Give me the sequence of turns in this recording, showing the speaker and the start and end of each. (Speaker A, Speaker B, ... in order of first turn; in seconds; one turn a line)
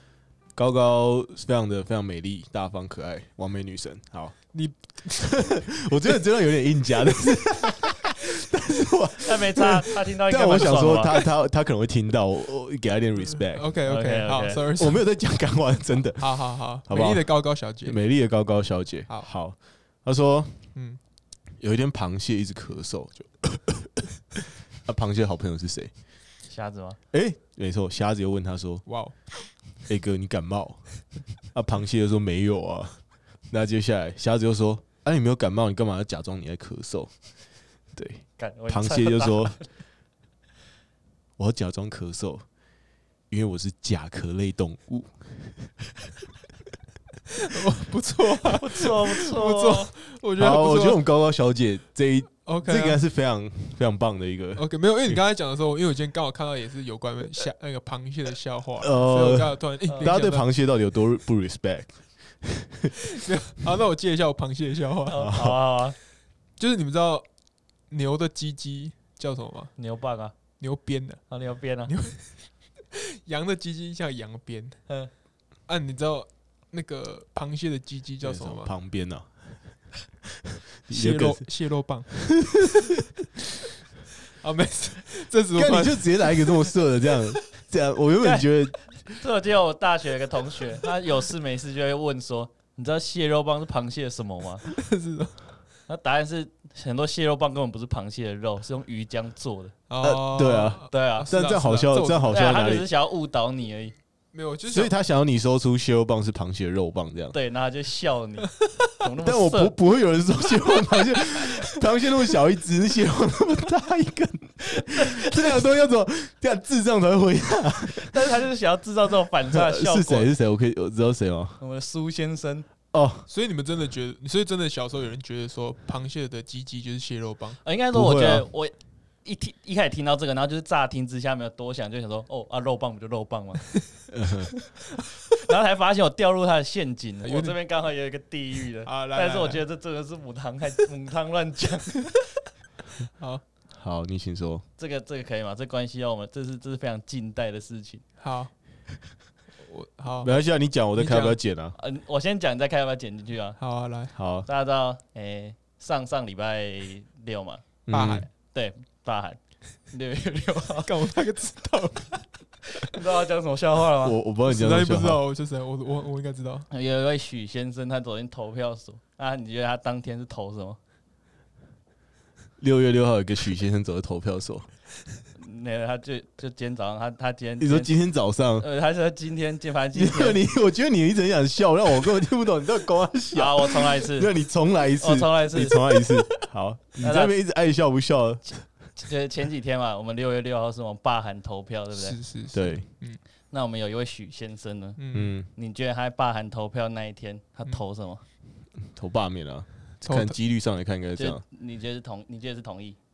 Speaker A: 0.6-4.4
Speaker B: 4.5-5.7
Speaker A: 5.2-13.8
Speaker C: 9.2-11.2
Speaker B: 13.5-15.1
Speaker C: 13.9-14.6
Speaker A: 14.8-20.7
Speaker B: 16.1-18.0
Speaker B: 20.7-21.0
Speaker A: 21.6-24.1
Speaker A: 24.8-25.9
Speaker C: 26.5-27.0
Speaker A: 27.1-28.8
Speaker B: 28.9-29.2
Speaker A: 29.9-30.9
Speaker A: 31.5-37.1
Speaker A: 38.0-39.6
Speaker C: 38.4-39.7
Speaker A: 41.4-42.5
Speaker A: 43.3-45.8
Speaker B: 47.3-51.0
Speaker C: 48.4-49.9
Speaker A: 50.4-55.2
Speaker B: 52.4-53.0
Speaker B: 54.5-60.5
Speaker A: 58.8-62.9
Speaker B: 63.1-65.2
Speaker C: 65.1-66.0
Speaker A: 65.1-65.6
Speaker B: 66.6-67.3
Speaker B: 67.9-69.7
Speaker C: 69.8-70.3
Speaker B: 70.6-71.3
Speaker C: 71.3-71.9
Speaker B: 71.8-74.8
Speaker B: 75.7-78.7
Speaker A: 78.2-81.5
Speaker B: 80.9-82.2
Speaker A: 82.1-82.9
Speaker B: 84.4-86.7
Speaker A: 85.5-89.0
Speaker C: 88.2-94.7
Speaker B: 94.6-95.6
Speaker C: 95.9-99.7
Speaker B: 99.9-102.4
Speaker A: 100.0-102.9
Speaker C: 100.9-101.3
Speaker C: 102.2-104.0
Speaker B: 104.3-104.9
Speaker A: 104.7-107.4
Speaker C: 107.3-109.7
Speaker A: 109.2-118.3
Speaker C: 118.0-120.3
Speaker A: 119.5-121.6
Speaker C: 121.6-122.7
Speaker A: 122.9-123.3
Speaker B: 123.3-127.6
Speaker C: 127.6-133.7
Speaker A: 127.9-128.5
Speaker A: 134.1-134.5
Speaker C: 135.4-142.1
Speaker B: 137.2-137.6
Speaker B: 138.8-139.6
Speaker A: 143.7-144.7
Speaker C: 144.8-148.0
Speaker B: 148.2-148.5
Speaker B: 149.6-150.3
Speaker A: 150.2-151.8
Speaker B: 150.9-151.4
Speaker C: 151.8-153.6
Speaker B: 153.6-154.2
Speaker A: 154.1-154.5
Speaker C: 154.4-157.8
Speaker A: 157.9-158.3
Speaker B: 157.9-158.3
Speaker C: 158.5-161.0
Speaker B: 160.8-162.3
Speaker C: 162.7-164.2
Speaker A: 164.0-165.3
Speaker B: 164.4-166.7
Speaker C: 166.7-170.8
Speaker A: 172.6-174.7
Speaker C: 175.3-178.0
Speaker A: 177.6-178.7
Speaker C: 178.6-180.4
Speaker A: 179.9-188.7
Speaker C: 183.3-184.3
Speaker C: 185.0-186.3
Speaker C: 187.0-187.3
Speaker C: 189.0-192.2
Speaker B: 191.9-193.2
Speaker A: 192.5-192.9
Speaker C: 193.5-198.2
Speaker B: 195.0-195.4
Speaker A: 195.1-195.5
Speaker A: 198.9-201.4
Speaker B: 200.1-200.4
Speaker C: 201.2-203.0